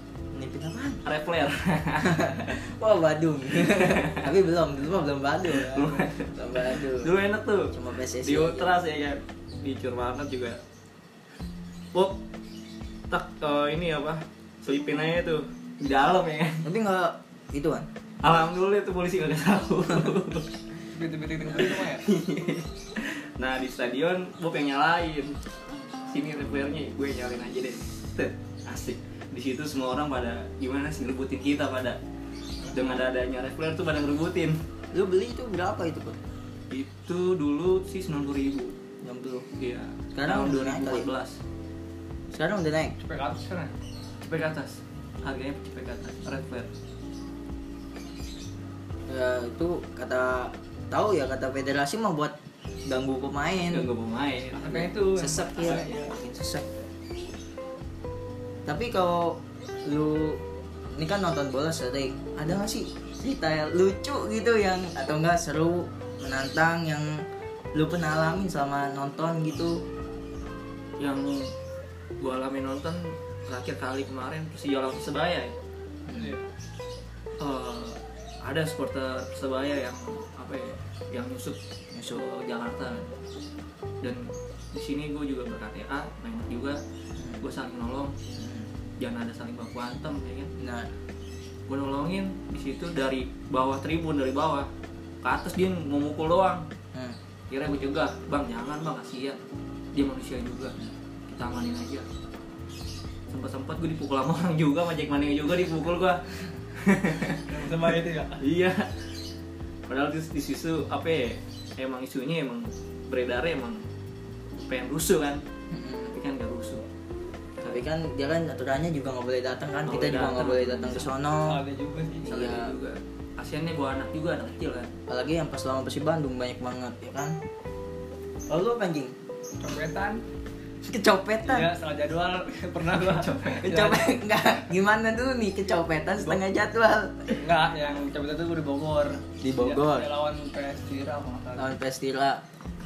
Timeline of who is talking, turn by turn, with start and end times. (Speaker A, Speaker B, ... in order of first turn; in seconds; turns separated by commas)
Speaker A: 0.3-1.0, Speaker B: 1.0-2.5, Speaker A: 2.0-7.1, Speaker B: 3.6-4.3, Speaker B: 5.5-10.6, Speaker C: 5.5-6.1, Speaker A: 7.7-8.7, Speaker B: 11.9-12.2, Speaker B: 13.1-16.6, Speaker A: 16.6-17.9, Speaker B: 18.2-20.5, Speaker C: 20.9-22.1, Speaker B: 21.6-25.4, Speaker B: 26.1-32.0, Speaker B: 32.7-34.6, Speaker A: 34.9-36.2, Speaker B: 36.7-38.8, Speaker A: 39.0-39.5, Speaker B: 39.6-41.4, Speaker A: 40.1-41.1, Speaker A: 42.3-43.0, Speaker C: 43.0-43.7, Speaker B: 44.2-46.7, Speaker A: 49.1-53.9, Speaker B: 53.7-54.9, Speaker C: 54.6-56.1, Speaker A: 54.7-56.6, Speaker A: 58.6-60.4, Speaker A: 60.9-69.8, Speaker B: 71.0-71.5, Speaker B: 72.2-75.5, Speaker A: 76.1-76.3, Speaker C: 76.1-76.4, Speaker B: 77.4-83.1, Speaker A: 81.9-82.2, Speaker B: 84.0-86.8, Speaker A: 87.2-87.4, Speaker B: 87.4-88.2, Speaker A: 88.4-88.7, Speaker B: 89.0-90.5, Speaker A: 90.6-90.9, Speaker B: 91.7-94.7, Speaker B: 95.2-96.7, Speaker B: 97.5-99.4, Speaker B: 99.9-100.8, Speaker B: 101.3-102.1, Speaker B: 103.3-107.8, Speaker C: 107.5-108.4, Speaker B: 108.4-109.1, Speaker B: 109.9-113.9, Speaker B: 114.5-115.4, Speaker A: 115.7-116.1, Speaker B: 116.1-116.8, Speaker A: 117.6-121.6, Speaker B: 119.8-121.1, Speaker C: 121.4-122.3, Speaker A: 122.2-122.7, Speaker B: 122.3-124.9, Speaker A: 125.1-127.4, Speaker A: 128.5-129.1, Speaker C: 129.6-130.2, Speaker A: 130.8-131.7, Speaker C: 131.4-134.1, Speaker A: 133.6-137.4, Speaker C: 137.4-141.7, Speaker A: 139.4-140.1, Speaker A: 141.6-142.4